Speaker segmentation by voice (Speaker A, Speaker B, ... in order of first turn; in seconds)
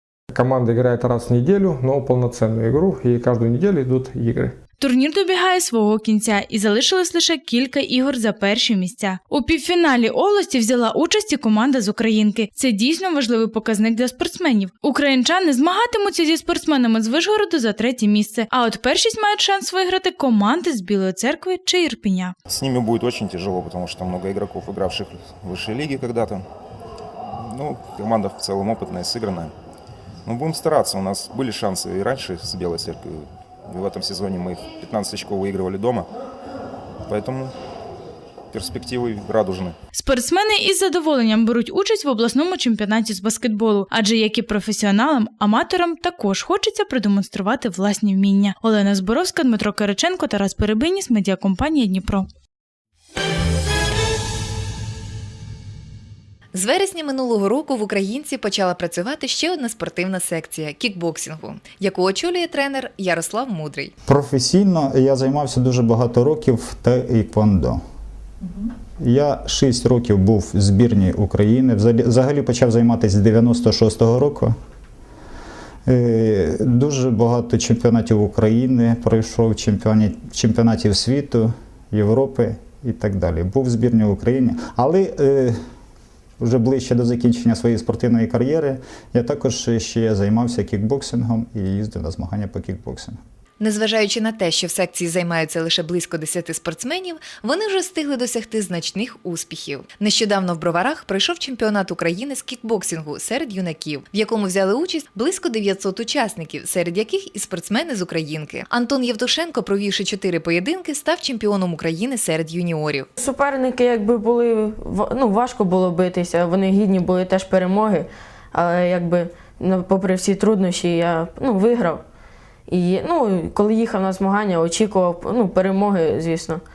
Speaker A: 0.3-4.6
Speaker B: 4.8-22.4, 39.9-52.2
Speaker C: 22.5-26.4, 27.3-29.5, 30.2-36.1, 37.1-37.5, 38.5-39.8
Speaker D: 56.5-63.9, 93.6-113.1
Speaker E: 64.1-67.8, 69.0-74.5, 75.9-85.6, 86.4-93.2
Speaker F: 113.2-122.0, 122.7-126.6